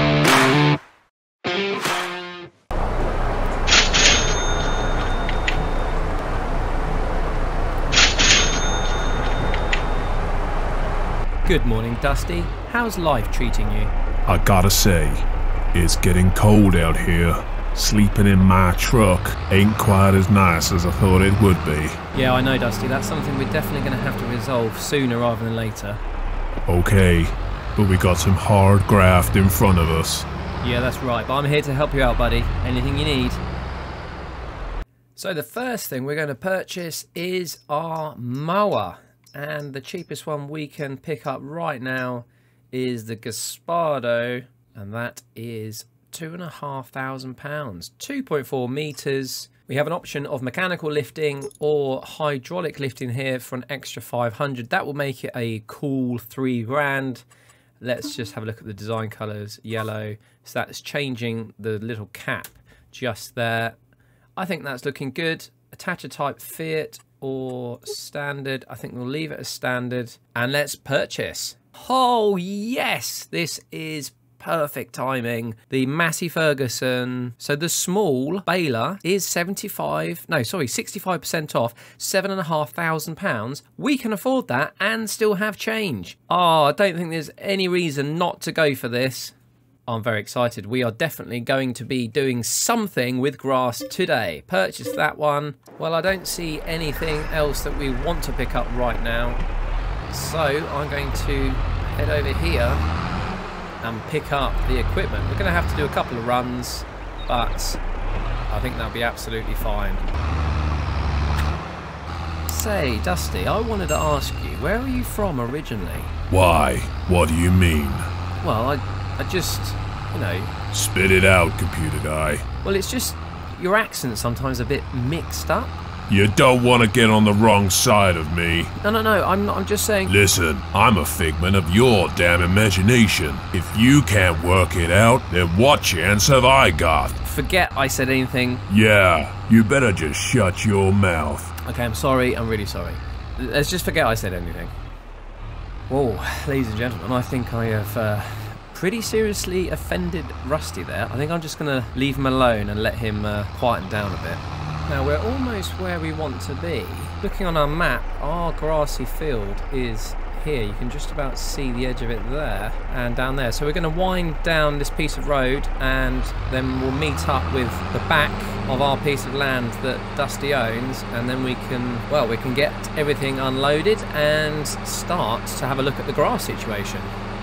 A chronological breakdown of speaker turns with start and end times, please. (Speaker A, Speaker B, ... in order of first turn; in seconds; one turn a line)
Speaker A: 11.4-13.9
Speaker B: 14.3-22.0
Speaker A: 22.1-26.0
Speaker B: 26.7-30.3
Speaker A: 30.6-33.4
Speaker A: 35.1-57.2
Speaker A: 57.8-63.8
Speaker A: 64.4-89.3
Speaker A: 89.9-99.4
Speaker A: 100.1-102.8
Speaker A: 103.8-107.8
Speaker A: 108.5-110.0
Speaker A: 112.5-116.1
Speaker B: 116.3-118.1
Speaker A: 118.4-120.5
Speaker B: 120.7-122.4
Speaker A: 122.6-125.7
Speaker B: 126.1-128.7
Speaker A: 128.8-130.1
Speaker B: 130.1-137.2
Speaker A: 137.2-138.6
Speaker B: 138.7-141.5
Speaker A: 141.6-144.7
Speaker A: 145.9-177.1